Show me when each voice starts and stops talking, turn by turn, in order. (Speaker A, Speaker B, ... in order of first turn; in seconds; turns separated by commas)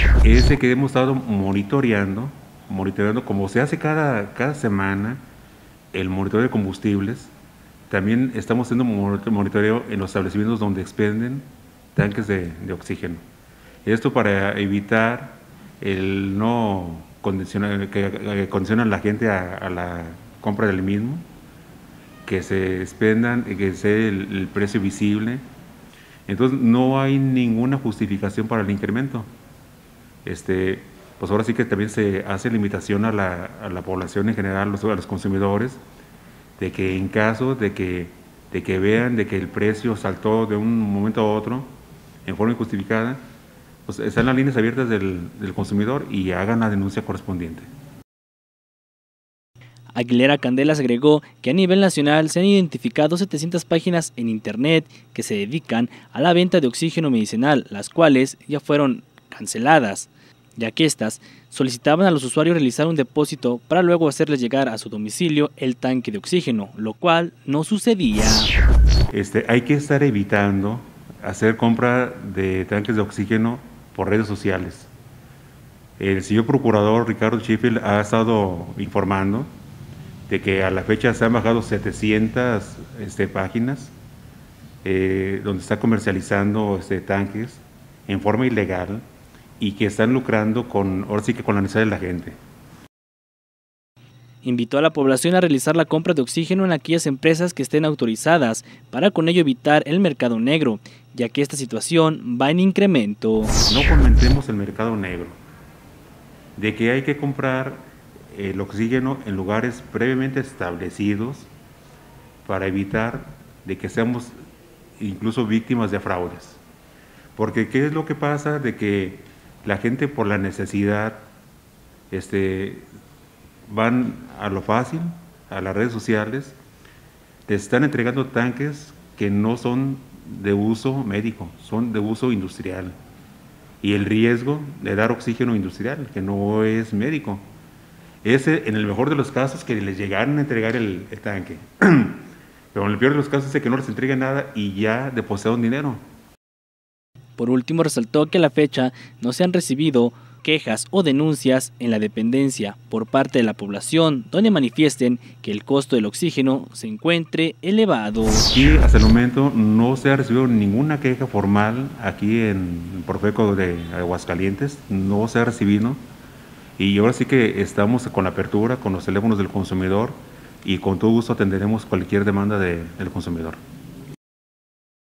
Speaker A: 0.2-5.2, Speaker A: 5.9-7.3, Speaker A: 7.9-13.2, Speaker A: 13.8-21.2, Speaker A: 22.2-25.4, Speaker A: 26.3-29.3, Speaker A: 30.2-35.8, Speaker A: 36.6-41.7, Speaker A: 42.2-43.2, Speaker A: 43.9-47.7, Speaker B: 49.9-68.5, Speaker A: 69.1-74.9, Speaker A: 76.0-79.5, Speaker A: 80.3-83.9, Speaker A: 84.8-89.0, Speaker A: 89.6-92.4, Speaker B: 94.4-103.5, Speaker A: 103.7-105.4, Speaker A: 106.6-111.5, Speaker A: 112.5-114.3, Speaker A: 115.0-116.6, Speaker A: 117.3-121.2, Speaker A: 122.1-122.8, Speaker A: 123.7-126.6, Speaker A: 127.5-132.9, Speaker A: 133.8-137.4, Speaker A: 138.2-146.0, Speaker B: 147.4-158.5, Speaker A: 158.5-166.0, Speaker A: 166.8-173.6